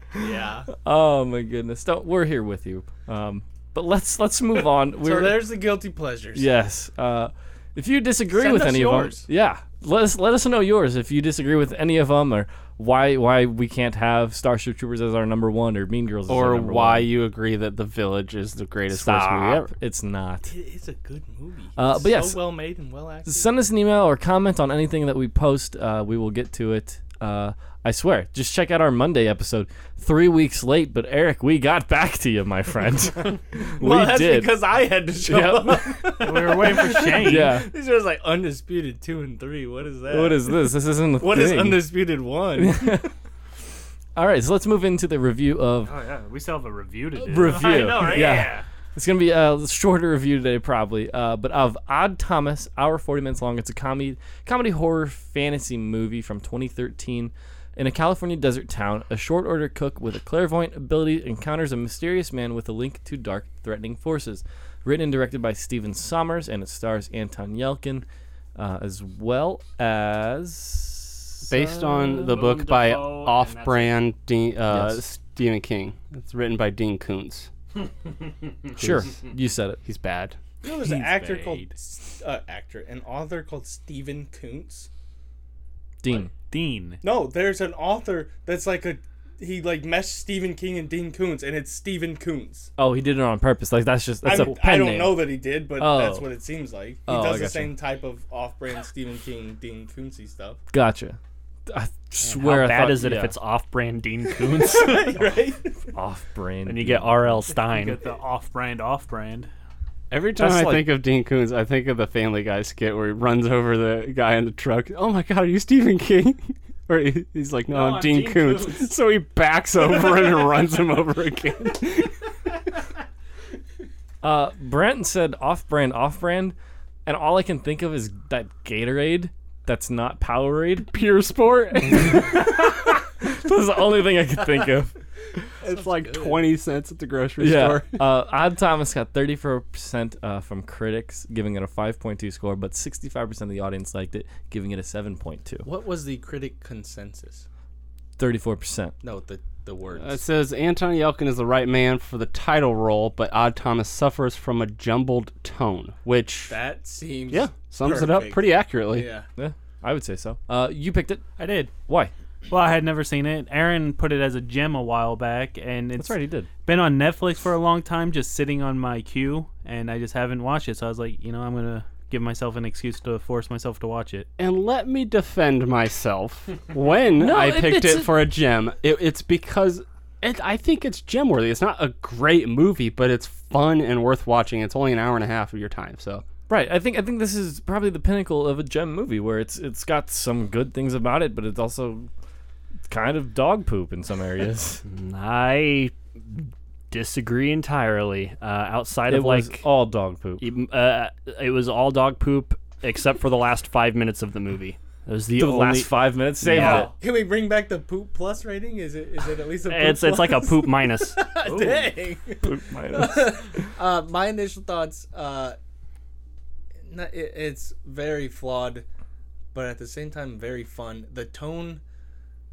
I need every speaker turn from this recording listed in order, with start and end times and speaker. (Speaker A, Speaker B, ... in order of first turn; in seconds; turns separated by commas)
Speaker A: 0.2-0.7, Speaker B: 0.8-5.4, Speaker A: 5.0-6.5, Speaker B: 6.3-17.1, Speaker A: 8.3-9.3, Speaker C: 16.3-19.7, Speaker B: 18.9-20.5, Speaker A: 20.5-23.5, Speaker B: 21.8-22.4, Speaker B: 23.2-34.6, Speaker A: 33.8-43.1, Speaker B: 35.2-36.1, Speaker D: 36.2-37.6, Speaker B: 37.1-37.7, Speaker B: 40.1-41.9, Speaker B: 42.5-43.1, Speaker B: 44.1-46.0, Speaker D: 45.8-48.6, Speaker B: 47.2-68.0, Speaker B: 68.5-72.4, Speaker C: 71.5-77.5, Speaker E: 72.3-73.9, Speaker B: 74.7-75.0, Speaker B: 78.8-79.8, Speaker C: 78.8-79.2, Speaker C: 79.8-80.4, Speaker A: 80.6-84.9, Speaker D: 80.6-81.7, Speaker B: 86.0-86.3, Speaker D: 86.3-87.0, Speaker A: 87.0-92.7, Speaker B: 92.8-96.3, Speaker A: 94.2-100.6, Speaker B: 97.1-97.7, Speaker B: 100.7-103.3, Speaker E: 102.2-105.2, Speaker A: 104.5-105.7, Speaker B: 105.9-107.4, Speaker E: 106.7-108.0, Speaker D: 107.6-109.5, Speaker C: 110.1-122.2, Speaker E: 117.7-118.9, Speaker B: 124.2-130.9, Speaker C: 130.9-132.6, Speaker B: 132.0-134.9, Speaker A: 135.6-136.4, Speaker C: 135.6-138.0, Speaker B: 137.4-145.7, Speaker A: 145.6-147.4, Speaker B: 148.2-148.9, Speaker A: 149.0-150.2, Speaker C: 149.9-156.6, Speaker A: 156.5-159.2, Speaker C: 157.3-159.1, Speaker B: 159.4-161.2, Speaker D: 161.4-161.7, Speaker B: 161.8-162.1, Speaker D: 162.5-174.3, Speaker B: 166.0-166.5, Speaker C: 174.4-186.2, Speaker B: 177.1-178.2, Speaker B: 186.5-192.1, Speaker B: 192.9-194.8, Speaker E: 194.8-199.6, Speaker B: 199.1-200.4, Speaker E: 200.4-206.9, Speaker B: 205.3-206.9, Speaker A: 206.6-215.6, Speaker E: 209.7-211.2, Speaker B: 212.4-213.7, Speaker A: 216.9-218.8, Speaker A: 219.5-221.8